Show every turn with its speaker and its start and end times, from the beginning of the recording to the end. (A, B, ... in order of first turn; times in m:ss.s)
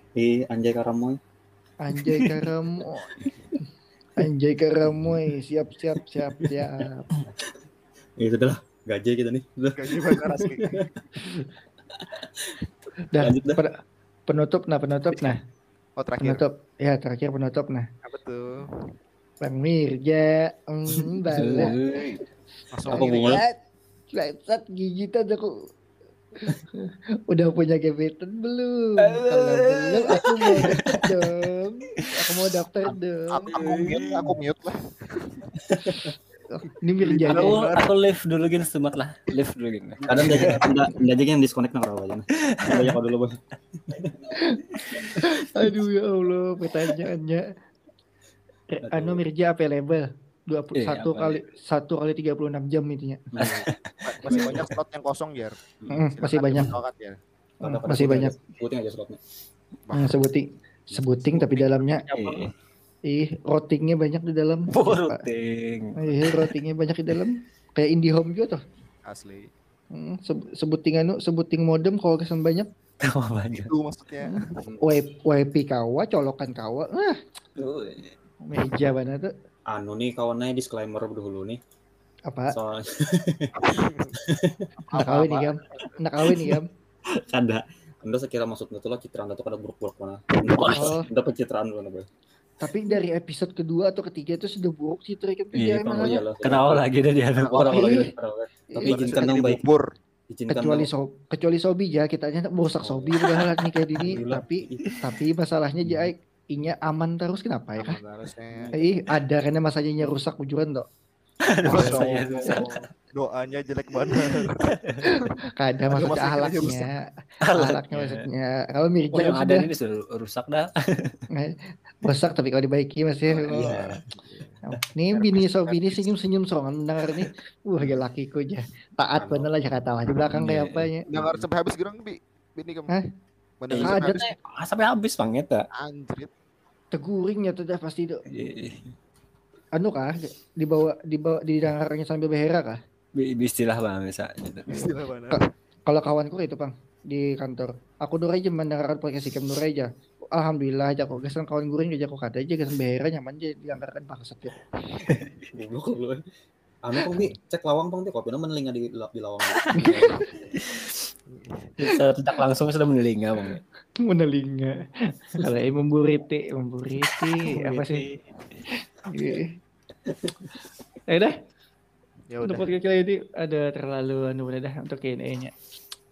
0:00.2-0:01.2 A
0:01.8-0:03.3 B
0:04.2-0:07.1 B
0:08.2-0:11.4 A
0:09.7-0:10.9 C
0:12.0-0:12.6 A
0:13.1-0:15.4 B
0:13.1-0:13.6 A
0:16.0-0:16.5 C
0:16.2-0:17.9 B
0:18.0-0:18.7 C
0:19.4-0:21.8 B
0:21.3-0:22.2 D
0:22.7-0:23.4 C
0:22.9-0:23.6 B
0:22.9-0:23.4 A
0:24.1-0:25.7 B
0:26.4-0:33.5 B
0:29.0-0:31.1 D
0:33.3-0:35.5 C
0:33.6-0:34.3 D
0:35.9-0:37.7 B
0:37.0-0:37.9 C
0:37.3-0:40.8 D
0:40.0-0:40.7 C
0:40.0-0:44.4 A
0:42.6-0:42.8 D
0:44.4-0:44.6 B
0:45.2-0:47.5 B
0:48.7-0:53.2 B
0:48.8-0:49.2 A
0:50.8-0:51.5 D
0:53.3-0:53.7 A
0:53.4-0:54.8 D
0:54.1-0:55.6 C
0:54.2-0:54.7 A
0:55.9-0:56.8 B
0:56.1-0:57.2 C
0:57.6-0:59.2 A
0:57.6-0:58.3 B
0:59.9-1:00.2 C
0:59.9-1:02.1 B
1:01.3-1:01.6 A
1:02.1-1:02.5 D
1:03.1-1:05.3 B
1:04.7-1:06.5 D
1:06.0-1:08.6 B
1:09.0-1:09.5 C
1:09.9-1:12.7 B
1:13.0-1:13.7 D
1:13.5-1:14.7 C
1:14.3-1:17.2 B
1:14.6-1:15.0 A
1:17.6-1:18.1 D
1:18.5-1:19.3 B
1:19.7-1:21.6 A
1:22.3-1:22.6 B
1:22.5-1:24.9 A
1:23.6-1:24.1 C
1:24.8-1:25.8 C
1:25.0-1:26.7 B
1:27.1-1:32.1 A
1:30.5-1:31.0 D
1:30.7-1:31.0 B
1:32.6-1:36.2 B
1:35.6-1:38.1 D
1:35.7-1:36.9 A
1:37.4-1:37.9 C
1:37.4-1:39.6 A
1:37.6-1:38.1 B
1:38.7-1:39.2 B
1:38.8-1:39.8 C
1:40.3-1:40.9 A
1:40.5-1:48.0 B
1:44.0-1:45.0 A
1:47.8-1:48.8 C
1:48.8-1:50.9 B
1:51.4-1:52.7 D
1:51.6-1:55.3 C
1:54.4-1:55.0 D
1:55.0-1:57.0 B
1:55.9-1:56.9 C
1:57.4-1:58.3 D
1:57.5-1:59.7 B
1:59.1-2:01.2 D
2:01.4-2:03.8 B
2:03.4-2:04.6 C
2:03.5-2:04.0 A
2:04.7-2:11.1 B
2:05.2-2:06.1 C
2:09.2-2:09.5 A
2:10.3-2:10.9 D
2:11.1-2:12.9 C
2:13.6-2:14.3 C
2:13.7-2:15.7 D
2:13.8-2:14.3 B
2:15.7-2:16.3 C
2:16.9-2:18.2 B
2:18.3-2:18.9 D
2:19.8-2:22.8 B
2:23.2-2:25.0 D
2:24.7-2:25.4 C
2:25.3-2:34.6 B
2:35.5-2:36.2 A
2:36.8-2:40.5 A
2:39.8-2:40.2 B
2:40.6-2:40.9 D
2:41.3-2:41.7 C
2:41.8-2:43.6 D
2:44.0-2:48.0 B
2:47.4-2:48.1 D
2:49.1-2:49.5 B
2:51.1-2:51.4 B
2:52.3-2:52.7 C
2:52.4-2:55.5 B